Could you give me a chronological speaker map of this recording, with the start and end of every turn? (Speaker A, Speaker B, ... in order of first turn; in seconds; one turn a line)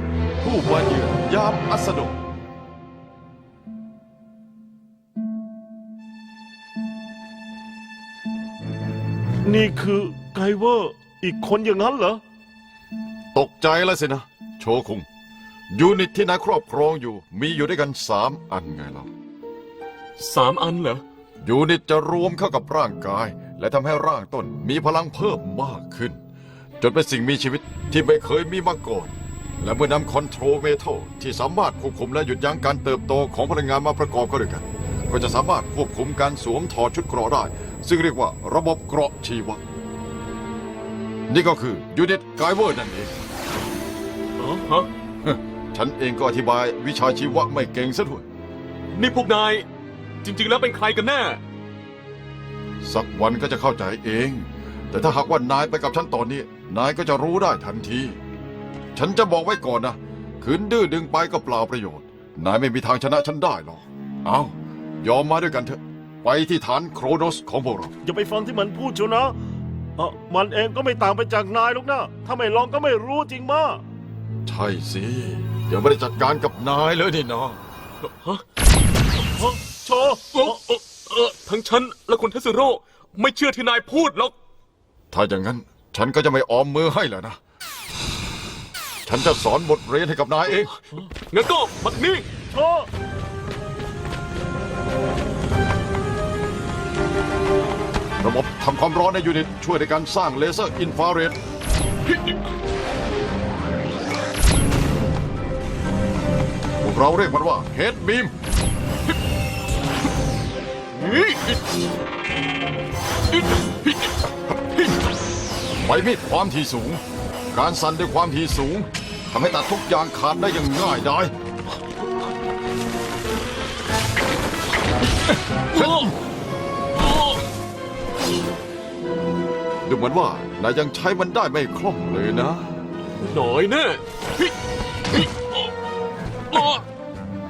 Speaker A: 0.4-2.2
Speaker B: 9.4-12.2
Speaker A: 13.3-15.1
Speaker A: 15.7-19.1
Speaker C: 20.2-21.0
Speaker A: 21.4-26.2
Speaker A: 26.8-39.6
Speaker A: 41.3-43.1
Speaker C: 44.4-44.9
Speaker A: 45.2-48.2
Speaker C: 48.9-49.6
Speaker C: 50.2-51.4
Speaker A: 52.8-58.2
Speaker A: 58.9-67.9
Speaker B: 68.0-69.4
Speaker B: 70.0-73.8
Speaker A: 74.4-77.6
Speaker C: 78.0-78.4
Speaker B: 79.3-80.5
Speaker C: 80.3-84.3
Speaker A: 85.1-87.4
Speaker A: 89.0-90.7
Speaker C: 91.3-92.2
Speaker B: 92.5-92.9
Speaker A: 98.2-101.4
Speaker C: 102.1-102.3
Speaker A: 106.8-108.3
Speaker C: 110.9-111.6
Speaker C: 113.3-114.2
Speaker C: 114.7-114.9
Speaker A: 115.8-121.3
Speaker C: 125.7-126.1
Speaker A: 125.8-126.0
Speaker C: 126.9-127.4
Speaker A: 129.8-132.9
Speaker C: 133.2-134.5
Speaker C: 135.1-135.7
Speaker C: 136.5-136.8